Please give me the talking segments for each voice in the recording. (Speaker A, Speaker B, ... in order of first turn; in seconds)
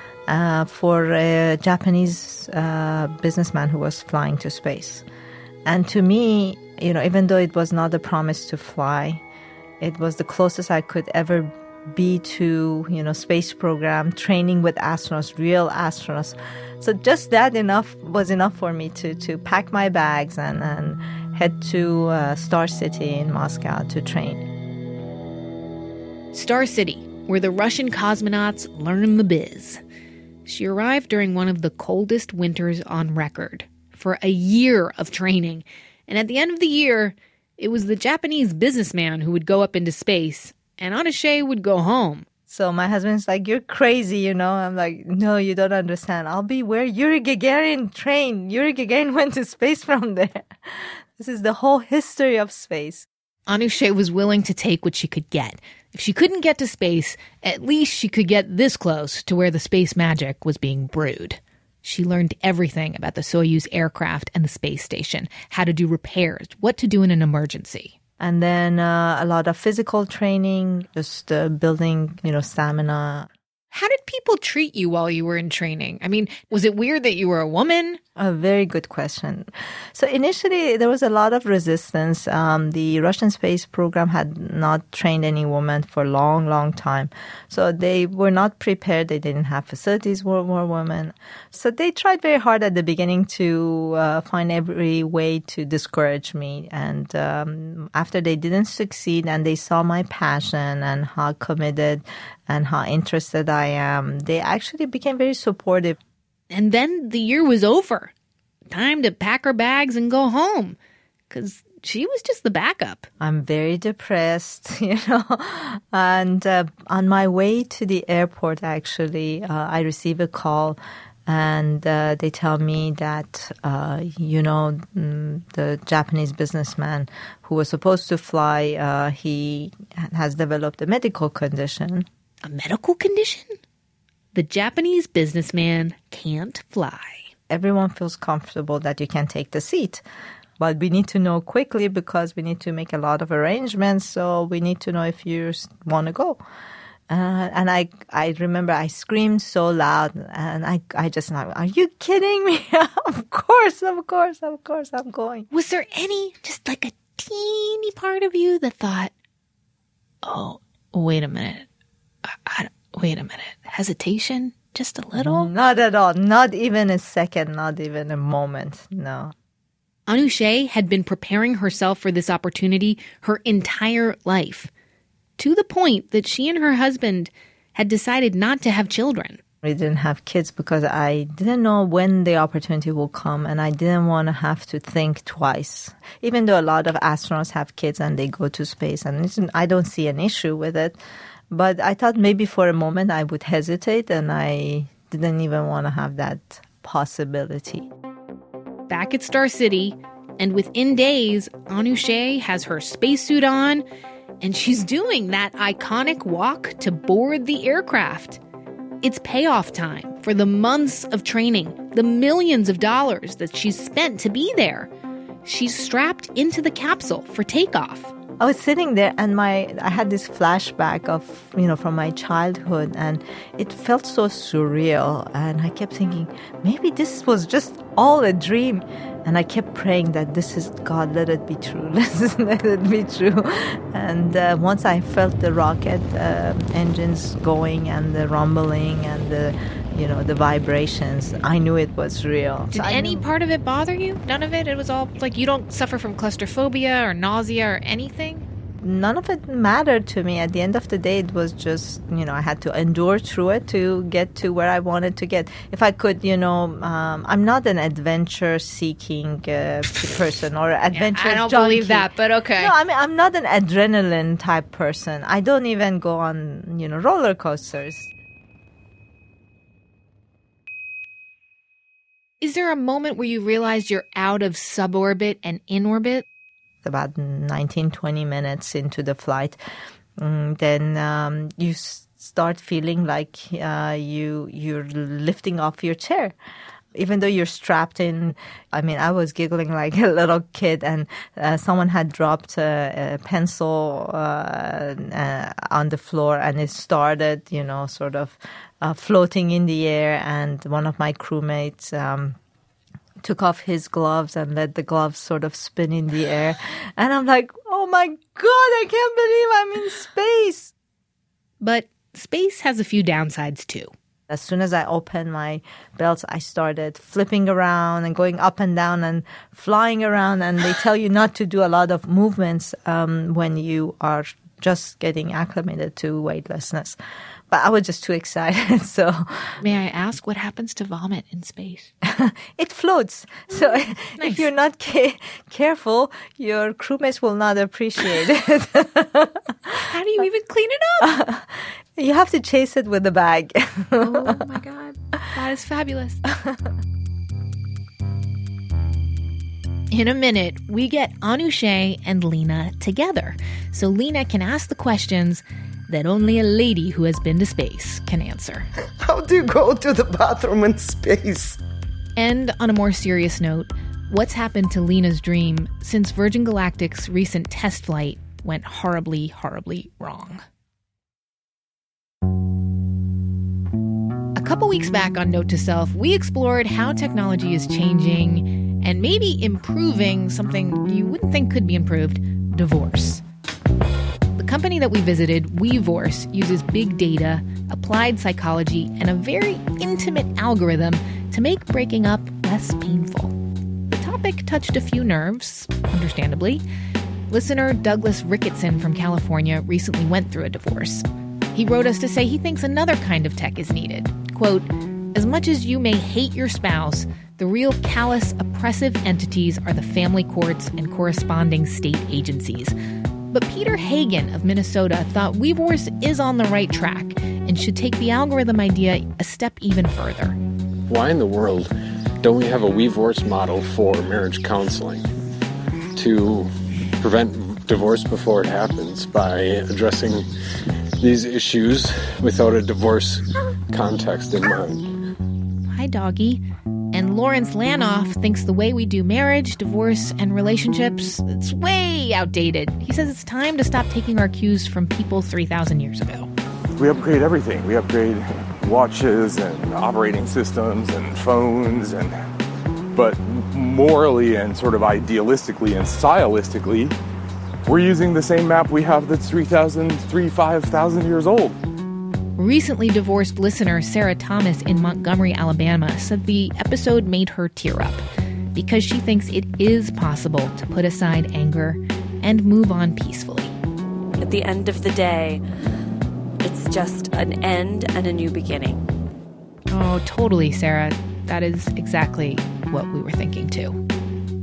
Speaker A: 0.3-5.0, 5.7-9.2, 9.8-24.4, 42.5-53.1, 68.2-73.3, 78.2-106.0, 113.2-132.1, 137.5-140.0, 140.6-146.4, 147.1-155.5, 165.2-169.3, 179.6-191.0, 191.5-197.9, 218.4-243.2, 248.8-268.1, 276.8-279.6, 280.2-286.4, 286.9-302.4, 303.2-310.7, 314.3-327.0, 327.5-329.6, 332.0-339.8, 341.0-344.5, 346.3-346.7
Speaker B: 26.3-29.8, 30.4-42.3, 53.5-68.0, 73.7-78.0, 106.5-108.1, 108.7-110.8, 111.3-113.1, 132.4-133.6, 134.3-137.3, 155.5-159.1, 160.2-161.7, 162.3-165.5, 170.1-174.7, 175.4-179.4, 198.9-203.8, 204.4-208.4, 209.0-214.9, 215.4-218.1, 242.7-248.4, 260.9-262.7, 272.4-276.2, 311.6-313.9, 329.6-331.9, 334.2-334.5, 339.8-341.1, 344.0-346.2, 349.9-358.7, 362.2-370.4, 374.4-383.2, 384.4-393.4, 393.9-396.6, 397.3-412.8, 413.3-420.4, 435.7-446.3, 462.4-468.0, 468.6-473.5, 479.7-483.8
Speaker C: 359.0-361.6
Speaker D: 420.9-425.1, 425.9-430.3, 431.0-434.9
Speaker E: 446.8-452.1, 452.9-456.9, 457.7-461.6
Speaker F: 474.2-475.4, 476.4-478.9